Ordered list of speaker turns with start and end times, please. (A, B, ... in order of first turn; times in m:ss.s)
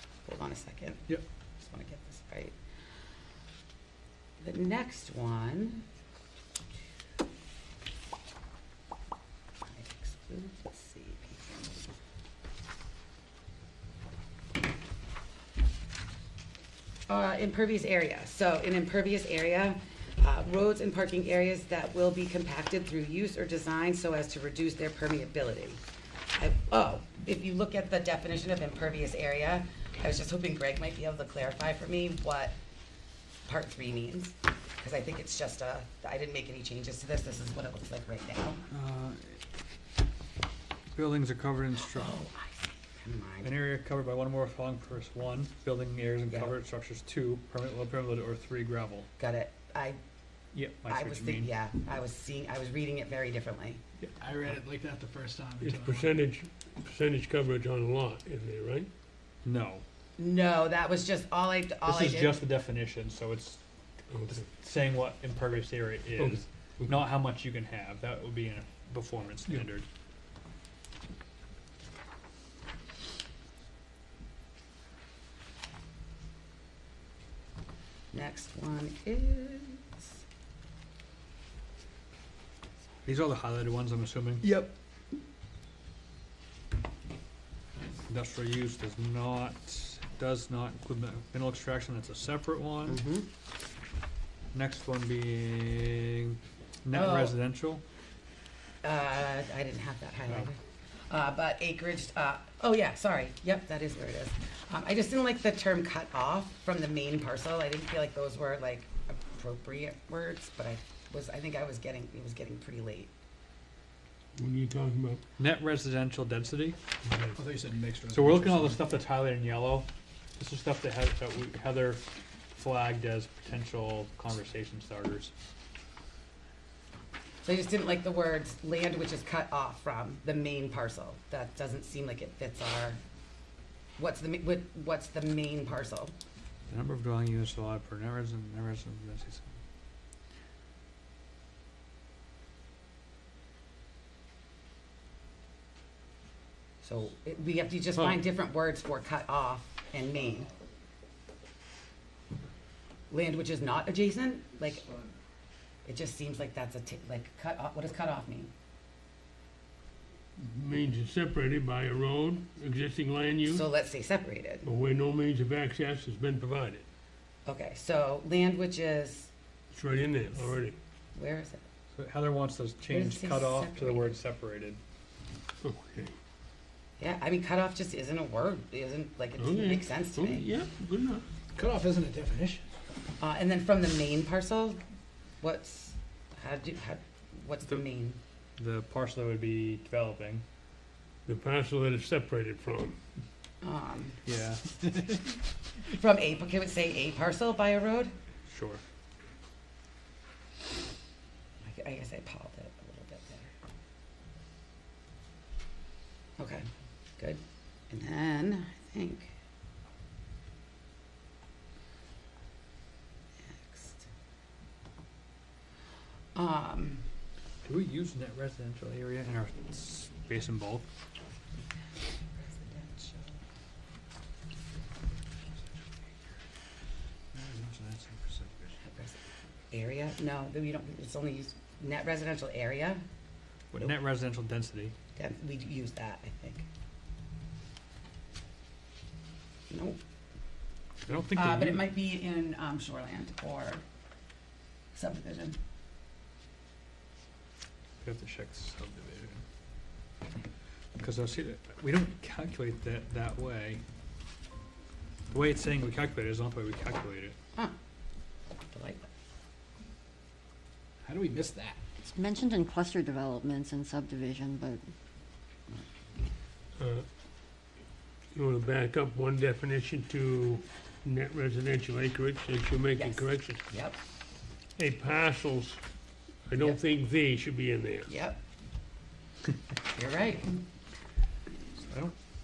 0:00.2-0:01.0 A
0:01.6-0:02.5 A
0:04.4-0:05.8 A
0:09.6-0:11.6 A
0:17.1-0:25.8 A
0:26.4-0:32.6 A
0:33.4-0:38.6 A
0:38.7-0:39.4 B
0:40.9-0:42.2 B
0:41.8-0:43.5 A
0:43.4-0:49.1 B
0:49.2-0:50.0 A
0:50.5-0:51.5 B
0:50.8-0:53.8 A
0:54.2-0:56.2 C
0:55.6-0:58.9 D
0:59.4-0:59.8 B
1:00.2-1:02.4 A
1:01.8-1:03.6 B
1:04.1-1:04.4 D
1:04.3-1:09.8 B
1:06.2-1:06.9 D
1:18.1-1:20.2 A
1:23.0-1:24.5 B
1:28.1-1:33.0 B
1:32.9-1:33.3 A
1:34.5-1:37.8 B
1:36.9-1:37.4 A
1:38.8-1:53.1 A
1:54.4-1:55.2 D
1:55.4-1:56.8 B
1:57.0-1:57.4 D
1:57.3-1:58.8 C
1:58.1-2:05.3 B
2:07.4-2:13.0 A
2:14.0-2:16.1 A
2:16.7-2:19.6 B
2:26.8-2:30.5 A
2:27.9-2:28.2 D
2:33.1-2:34.9 A
2:35.8-2:38.5 A
2:40.4-2:43.6 D
2:43.5-2:44.7 A
2:44.6-2:46.8 D
2:47.4-2:49.3 A
2:49.7-2:50.8 D
2:51.1-2:51.6 A
2:51.9-2:54.8 B
2:52.9-2:54.2 A
2:55.6-2:56.2 D
2:57.0-3:00.4 A
2:59.4-3:01.2 D
3:01.5-3:02.6 C
3:03.2-3:04.8 A
3:05.4-3:08.2 A
3:08.6-3:10.4 B
3:11.2-3:13.0 D
3:13.6-3:14.2 A
3:14.2-3:15.0 B
3:15.8-3:18.1 A
3:18.5-3:18.8 B
3:21.6-3:23.5 A
3:26.4-3:29.3 A
3:33.5-3:34.1 A
3:36.3-3:37.0 A
3:37.6-3:40.8 B
3:42.4-3:43.4 A
3:47.3-3:48.8 B
3:48.8-3:49.2 A
3:49.7-3:53.0 A
3:53.7-3:54.9 B
3:55.2-3:56.6 A
3:59.7-4:00.0 A
4:01.0-4:01.8 B
4:01.3-4:03.8 A
4:04.9-4:05.6 A
4:08.0-4:09.4 B
4:11.0-4:13.8 B
4:15.3-4:17.4 B
4:18.7-4:19.0 A
4:21.0-4:21.8 C
4:22.0-4:24.8 E
4:26.8-4:27.0 D
4:28.3-4:33.6 D
4:33.0-4:34.0 A
4:34.8-4:35.8 D
4:36.5-4:38.1 D
4:38.1-4:38.4 A
4:39.9-4:40.6 A
4:41.8-4:42.2 B